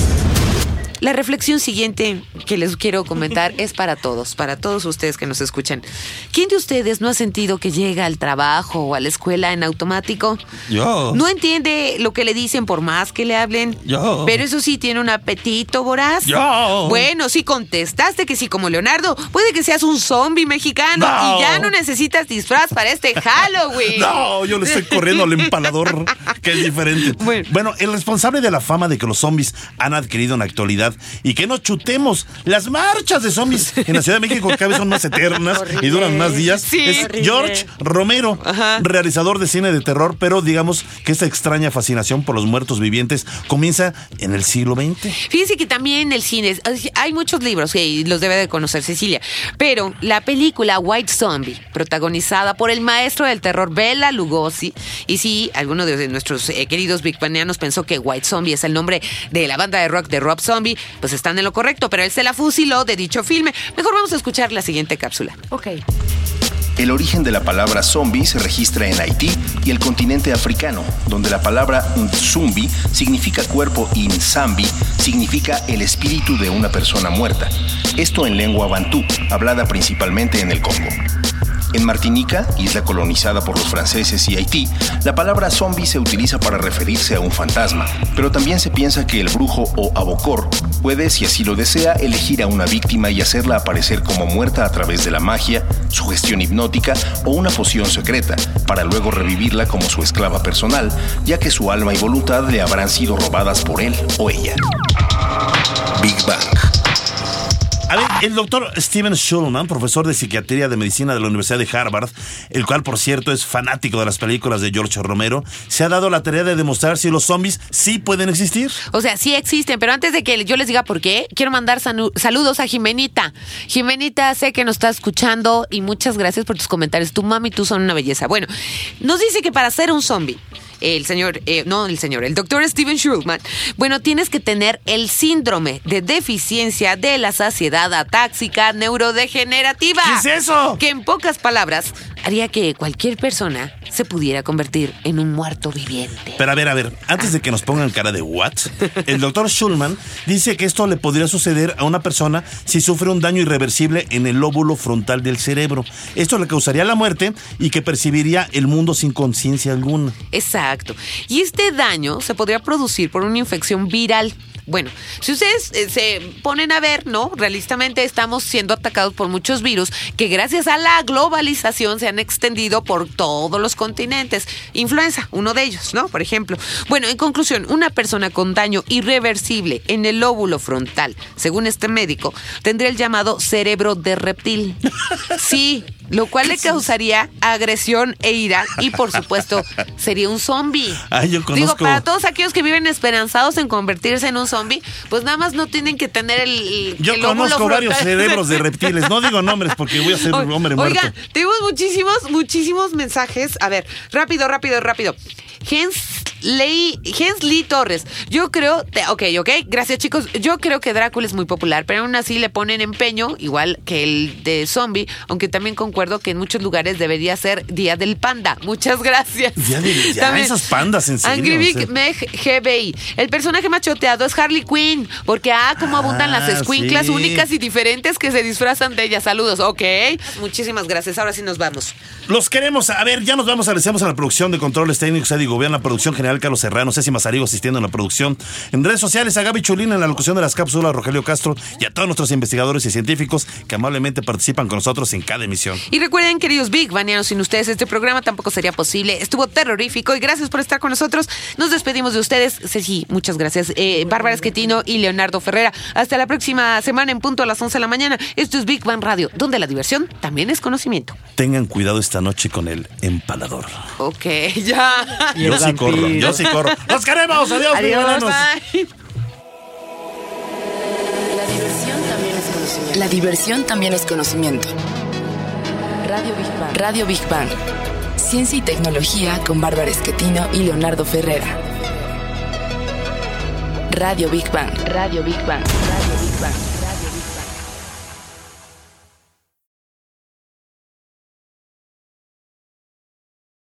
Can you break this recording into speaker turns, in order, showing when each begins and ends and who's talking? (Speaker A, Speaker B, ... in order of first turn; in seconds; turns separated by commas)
Speaker A: 1.0-10.4, Speaker B: 10.7-11.2, Speaker A: 11.1-25.5, Speaker B: 13.8-14.4, Speaker B: 16.2-17.1, Speaker B: 20.9-21.7, Speaker B: 23.9-45.2, Speaker A: 27.0-27.5, Speaker A: 33.8-34.6, Speaker C: 35.5-37.7, Speaker A: 36.5-37.1, Speaker A: 38.4-38.8, Speaker A: 45.2-65.4, Speaker C: 65.5-65.8, Speaker D: 66.8-81.0, Speaker D: 81.7-104.6, Speaker D: 105.9-106.5, Speaker B: 107.9-118.8, Speaker A: 118.9-128.5, Speaker A: 129.0-140.3, Speaker B: 140.0-140.8, Speaker A: 140.8-146.5, Speaker B: 146.4-160.2, Speaker A: 160.3-184.8, Speaker A: 185.3-220.7, Speaker B: 186.4-186.8, Speaker B: 191.1-192.0, Speaker B: 197.0-201.1, Speaker B: 219.6-221.9, Speaker A: 221.2-231.9, Speaker B: 225.8-227.5, Speaker B: 232.3-245.8, Speaker A: 245.9-261.1, Speaker B: 261.4-263.7, Speaker A: 264.0-266.9, Speaker C: 265.4-266.5, Speaker B: 265.4-268.4, Speaker A: 267.6-268.9, Speaker E: 271.2-274.7, Speaker E: 276.0-277.6, Speaker E: 278.2-281.6, Speaker E: 283.9-287.4